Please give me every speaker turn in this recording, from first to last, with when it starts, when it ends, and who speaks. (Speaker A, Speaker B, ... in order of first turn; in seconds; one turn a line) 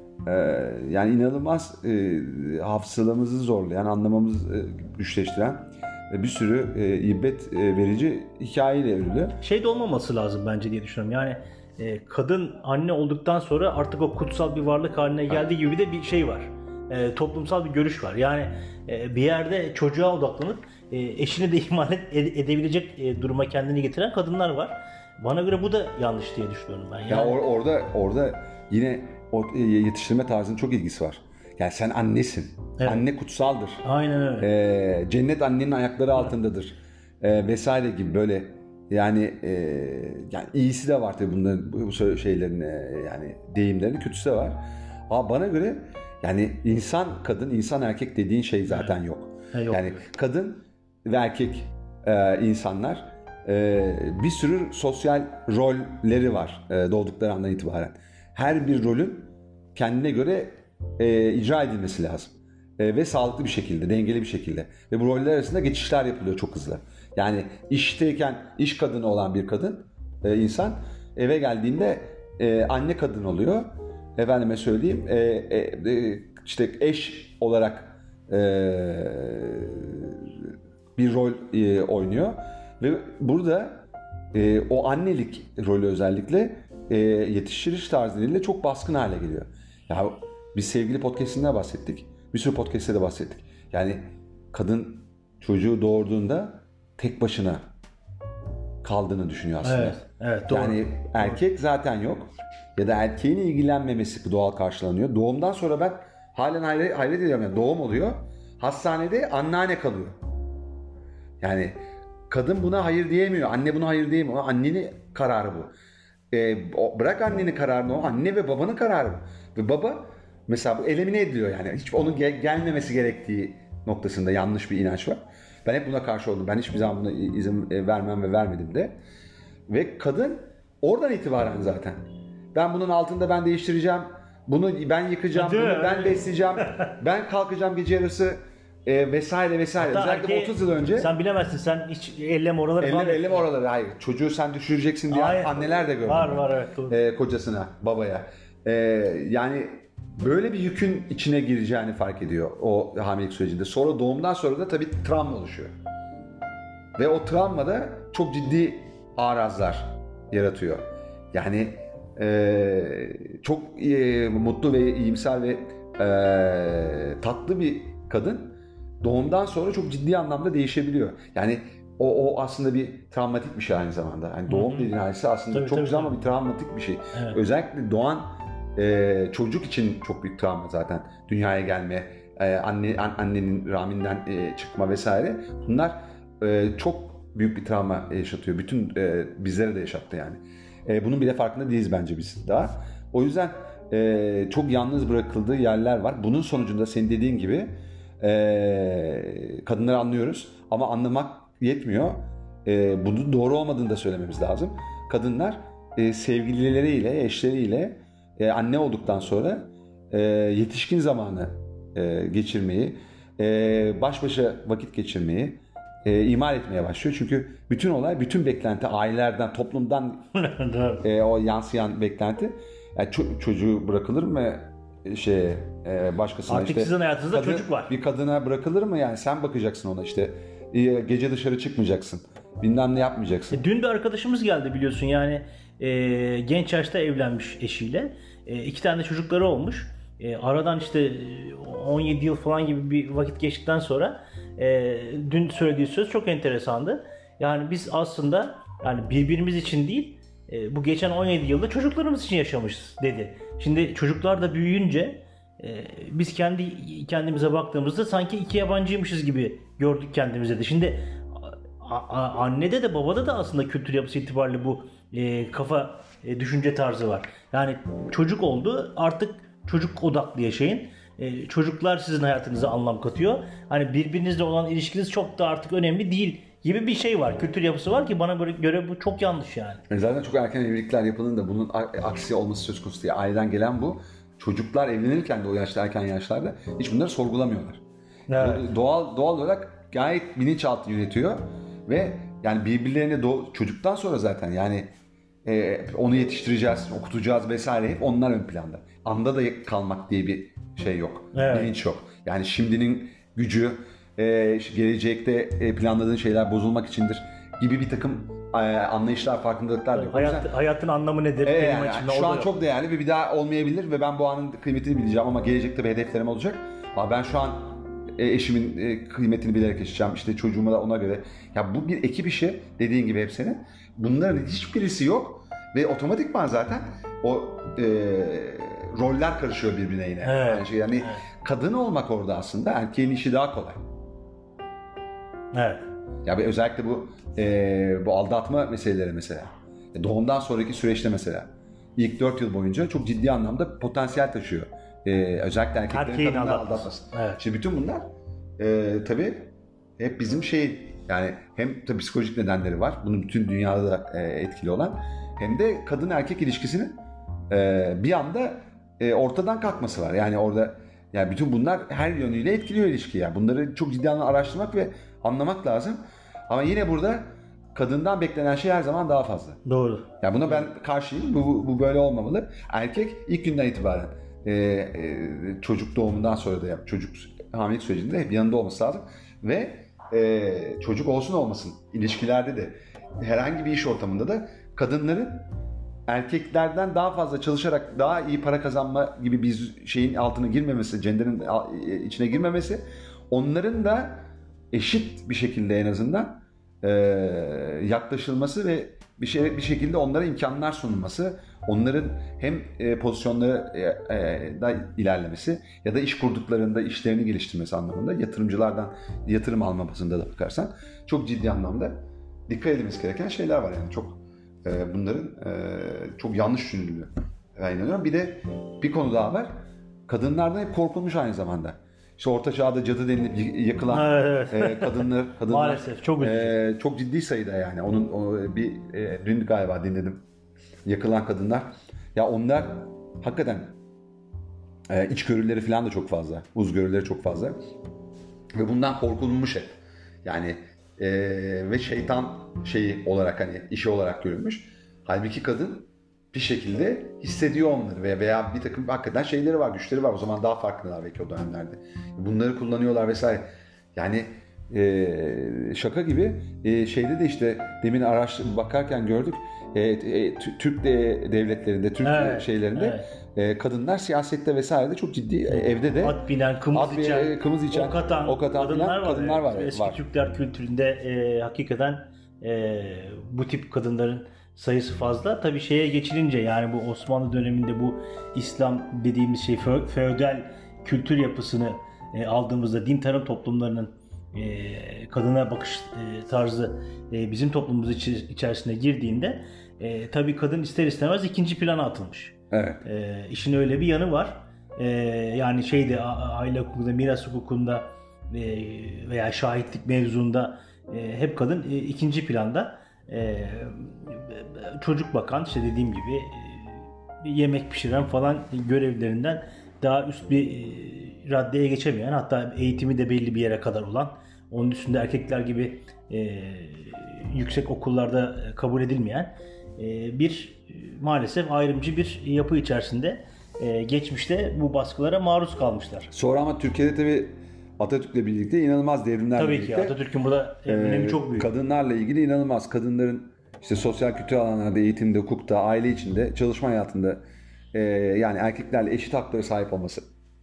Speaker A: 0.2-9.4
Speaker B: 9.4-27.4
Speaker A: 27.1-33.8
Speaker B: 32.8-33.0
Speaker B: 33.8-34.5
Speaker A: 34.4-97.6
Speaker B: 48.7-48.9
Speaker B: 49.5-50.0
Speaker A: 98.8-110.2
Speaker B: 99.6-101.4
Speaker A: 111.4-111.8
Speaker A: 112.3-115.7
Speaker A: 116.3-128.9
Speaker A: 129.7-141.1
Speaker B: 135.3-136.9
Speaker B: 139.8-143.5
Speaker A: 142.8-155.7
Speaker B: 145.1-147.0
Speaker A: 157.0-220.3
Speaker B: 174.5-174.9
Speaker B: 175.5-176.2
Speaker B: 177.1-177.4
Speaker B: 220.3-221.1
Speaker A: 221.0-233.6
Speaker B: 226.5-227.9
Speaker B: 233.5-279.8
Speaker A: 279.9-287.8
Speaker B: 288.3-288.7
Speaker A: 288.4-294.9
Speaker A: 295.4-310.5
Speaker B: 301.3-301.7
Speaker B: 309.9-312.5
Speaker A: 311.4-333.8
Speaker B: 330.2-331.2
Speaker B: 335.5-335.9
Speaker A: 336.2-348.1
Speaker B: 345.9-347.4
Speaker A: 348.6-356.9
Speaker A: 357.5-369.6
Speaker B: 369.6-370.1
Speaker A: 370.2-385.5
Speaker A: 386.1-419.5
Speaker A: 420.1-430.2
Speaker B: 423.9-426.6
Speaker A: 430.8-433.8
Speaker A: 434.9-437.6
Speaker A: 438.6-466.2
Speaker B: 462.0-463.1
Speaker B: 465.5-526.1
Speaker A: 466.7-470.0
Speaker A: 492.5-492.8
Speaker A: 526.1-530.0
Speaker B: 529.4-531.5
Speaker A: 530.6-537.2
Speaker A: 537.7-540.0